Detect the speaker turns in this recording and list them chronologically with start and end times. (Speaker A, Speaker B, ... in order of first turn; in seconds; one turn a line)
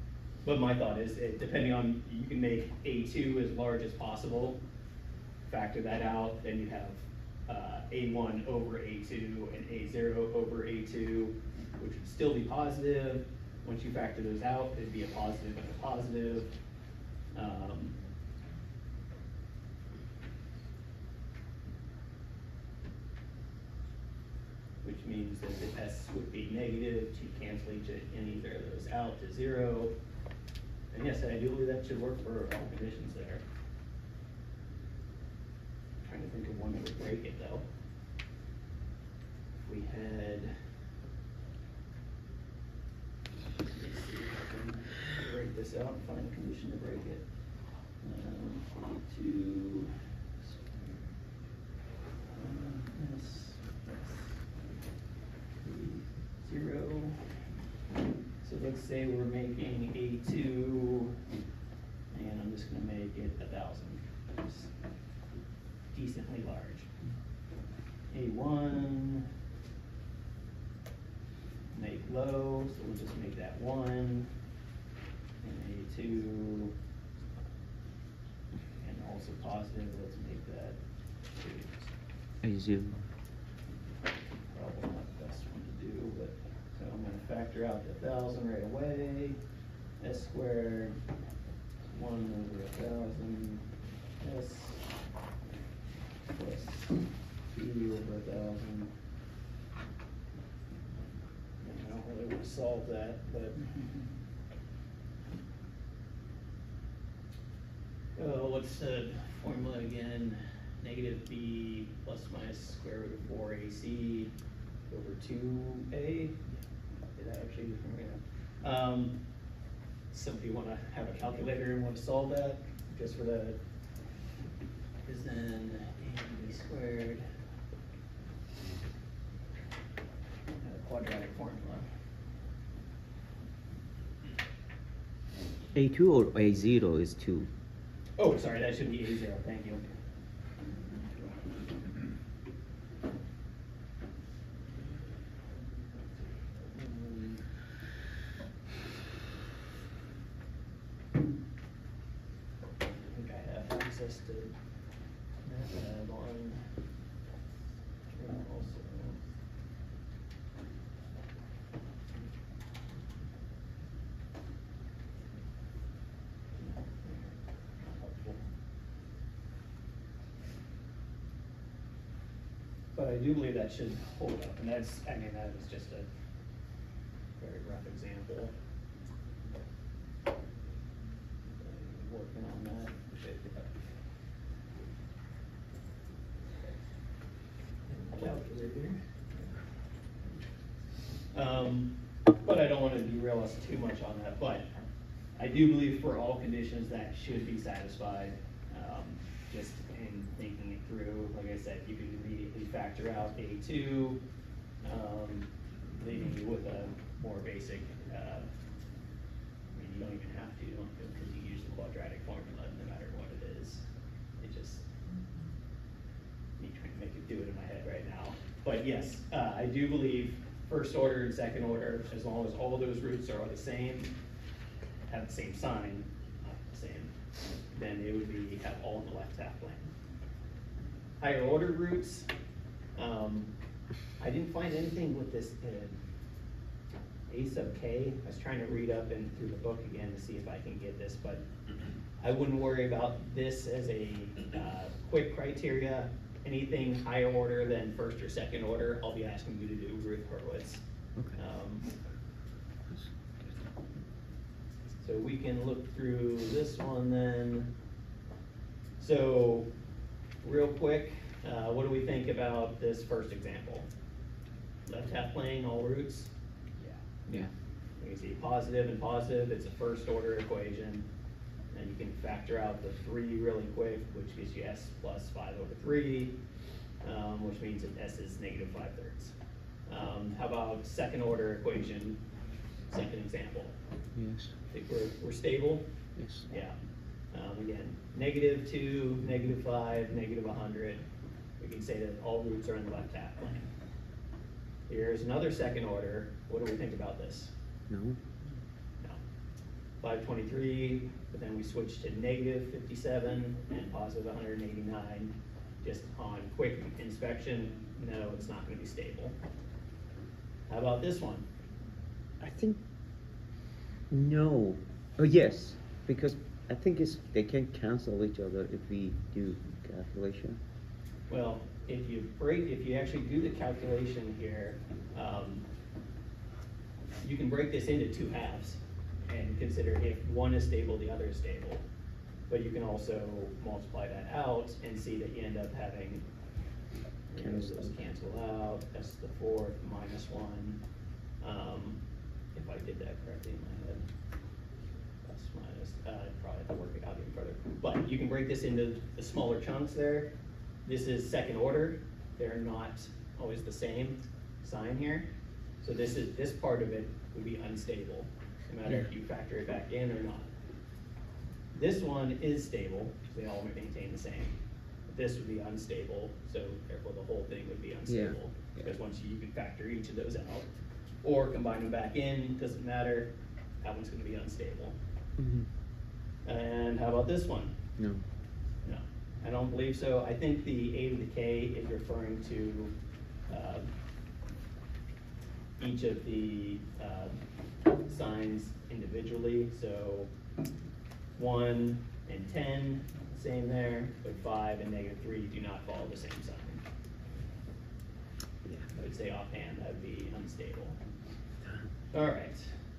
Speaker A: 0.4-4.6
Speaker A: 5.5-16.5
Speaker A: 17.3-17.9
Speaker A: 24.8-29.9
Speaker A: 30.9-33.4
Speaker A: 36.0-37.6
Speaker A: 39.6-40.5
Speaker A: 43.7-47.2
Speaker A: 48.0-49.9
Speaker A: 50.5-51.1
Speaker A: 52.2-54.6
Speaker A: 55.6-57.2
Speaker A: 58.4-61.1
Speaker A: 62.1-64.7
Speaker A: 65.9-66.9
Speaker A: 68.1-69.3
Speaker A: 71.7-74.3
Speaker A: 75.4-76.7
Speaker A: 78.8-80.8
Speaker A: 81.3-81.9
Speaker B: 82.4-83.0
Speaker A: 84.5-89.4
Speaker A: 90.0-91.0
Speaker A: 91.9-93.7
Speaker A: 94.2-94.8
Speaker A: 96.3-98.9
Speaker A: 101.6-103.7
Speaker A: 108.2-114.3
Speaker A: 114.9-116.5
Speaker A: 117.2-119.2
Speaker A: 120.1-123.6
Speaker A: 125.0-127.2
Speaker A: 130.6-131.8
Speaker B: 135.7-137.5
Speaker A: 138.2-139.8
Speaker A: 146.2-147.4
Speaker A: 153.1-154.5
Speaker A: 155.4-156.6
Speaker A: 158.1-159.2
Speaker A: 166.6-168.4
Speaker A: 172.9-176.1
Speaker A: 177.4-178.5
Speaker A: 181.5-183.8
Speaker A: 187.9-189.5
Speaker A: 191.3-194.7
Speaker A: 195.3-204.2
Speaker A: 204.8-208.5
Speaker A: 209.7-213.8
Speaker A: 214.4-214.9
Speaker A: 216.6-224.1
Speaker A: 225.1-227.1
Speaker A: 227.7-229.9
Speaker A: 231.2-232.3
Speaker A: 232.9-233.5
Speaker A: 234.2-236.0
Speaker A: 237.3-241.4
Speaker A: 242.2-250.8
Speaker A: 251.3-251.9
Speaker A: 255.0-257.7
Speaker A: 259.0-259.7
Speaker A: 260.4-263.9
Speaker A: 264.9-266.9
Speaker A: 268.0-271.1
Speaker A: 271.7-276.4
Speaker A: 277.0-279.3
Speaker A: 279.9-282.2
Speaker A: 282.9-283.7
Speaker B: 284.1-284.5
Speaker A: 284.7-285.9
Speaker B: 286.1-286.5
Speaker A: 286.5-286.7
Speaker A: 287.3-291.0
Speaker A: 291.6-293.7
Speaker A: 294.9-297.5
Speaker B: 297.9-298.2
Speaker A: 300.0-309.4
Speaker A: 310.7-311.4
Speaker B: 312.4-312.8
Speaker B: 314.1-320.6
Speaker A: 321.3-325.6
Speaker A: 327.2-331.8
Speaker A: 332.5-336.2
Speaker A: 337.3-340.8
Speaker B: 337.4-337.9
Speaker A: 341.4-342.0
Speaker A: 342.5-344.1
Speaker A: 345.2-350.3
Speaker A: 350.8-355.3
Speaker A: 355.8-360.5
Speaker A: 361.7-364.6
Speaker A: 365.1-373.3
Speaker B: 368.1-368.8
Speaker A: 373.8-375.0
Speaker B: 375.4-375.7
Speaker A: 376.4-377.8
Speaker B: 378.0-378.2
Speaker A: 378.8-382.9
Speaker A: 383.5-383.9
Speaker A: 385.8-387.4
Speaker A: 388.0-390.3
Speaker A: 391.4-396.8
Speaker A: 398.9-401.0
Speaker A: 402.1-402.7